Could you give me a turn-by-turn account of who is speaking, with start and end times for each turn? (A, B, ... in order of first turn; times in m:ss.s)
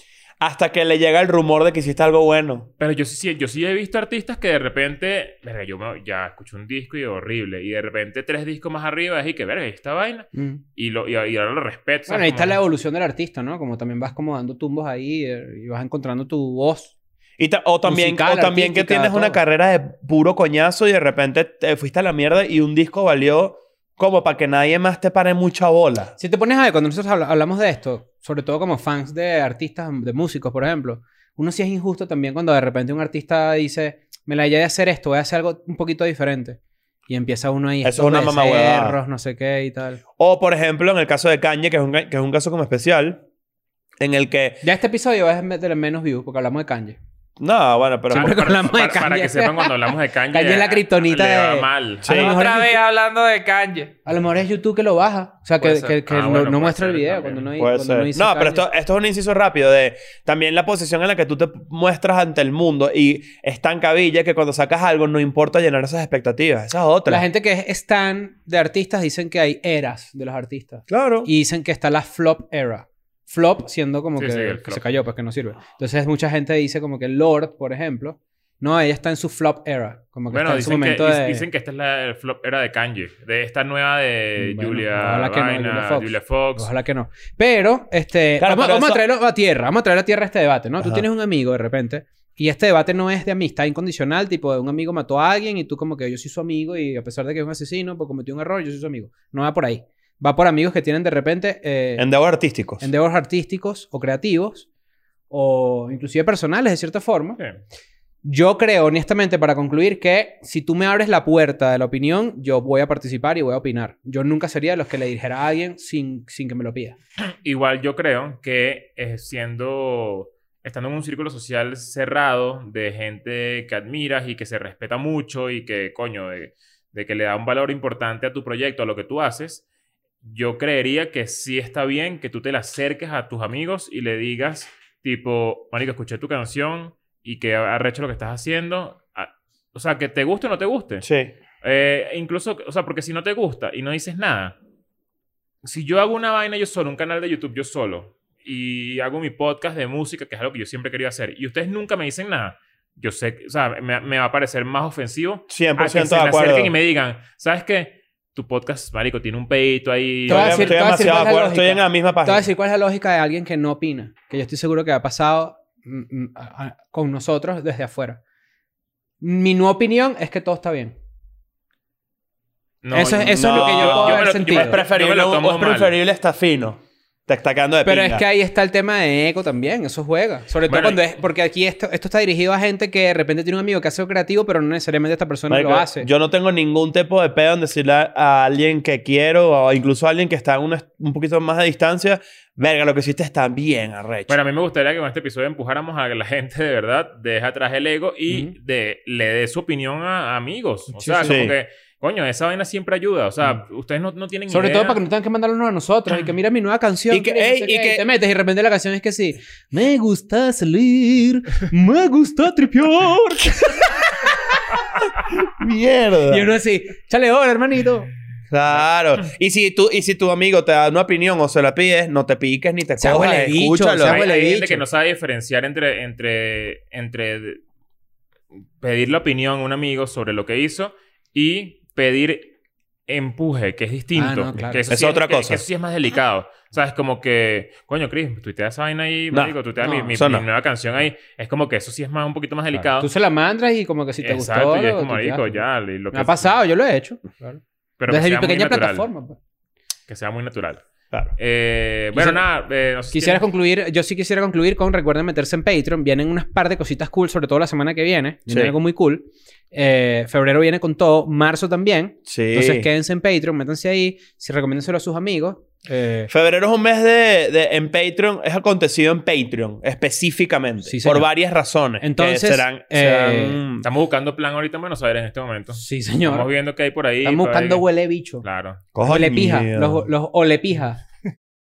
0:00.4-0:02.7 A
0:02.8-0:12.6 B
0:10.4-0:10.6 C
0:12.1-0:16.9 C
0:17.4-0:26.1 A
0:17.8-0:19.4 C
0:26.2-0:40.0 C
0:37.8-0:39.0 A
0:40.2-0:43.2 A
0:44.0-0:44.6 A
0:44.6-0:47.0 C
0:47.4-0:48.5 A
0:48.1-0:52.8 C
0:48.1-0:52.0 B
0:52.0-0:52.4 A
0:52.1-0:54.0 D
0:54.1-0:58.6 C
0:55.6-0:56.0 D
0:56.1-0:57.5 B
0:57.6-1:07.2 A
1:07.1-1:21.5 C
1:10.9-1:11.3 A
1:14.2-1:15.0 B
1:20.3-1:26.7 B
1:24.4-1:42.1 C
1:28.4-1:29.0 A
1:30.8-1:31.1 A
1:42.0-1:42.9 A
1:42.8-1:44.7 C
1:45.3-1:47.4 C
1:48.2-1:57.0 C
1:57.4-2:09.6 B
2:10.2-2:21.1 B
2:21.0-2:21.3 A
2:21.6-2:24.6 B
2:25.6-2:40.9 B
2:35.5-2:36.7 A
2:40.3-2:42.5 A
2:40.3-2:48.2 C
2:49.2-2:51.0 C
2:52.8-2:55.9 B
2:52.9-2:54.8 C
2:53.2-2:58.2 A
2:57.9-3:06.1 C
3:00.7-3:01.0 B
3:05.5-3:14.4 A
3:14.3-3:25.0 B
3:20.9-3:21.4 C
3:21.2-3:21.6 A
3:24.5-3:34.6 C
3:27.1-3:28.1 A
3:35.4-3:36.5 A
3:36.3-3:38.1 C
3:38.5-3:44.2 A
3:43.0-3:44.8 C
3:44.0-3:47.6 B
3:48.8-3:52.5 B
3:53.1-4:03.1 B
3:54.2-3:54.8 C
3:54.9-3:55.6 A
3:59.8-4:00.2 C
4:00.1-4:00.5 A
4:03.0-4:09.4 C
4:04.2-4:06.6 B
4:08.0-4:09.1 B
4:10.1-4:10.8 B
4:11.4-4:13.5 B
4:12.1-4:12.4 C
4:13.1-4:26.3 C
4:18.5-4:18.7 A
4:22.3-4:22.9 A
4:26.3-4:33.9 A
4:30.8-4:31.3 C
4:32.0-4:33.6 C
4:33.8-4:37.9 B
4:35.7-4:36.5 C
4:37.2-4:38.4 C
4:38.4-4:38.8 B
4:39.0-4:40.1 A
4:39.0-4:41.0 C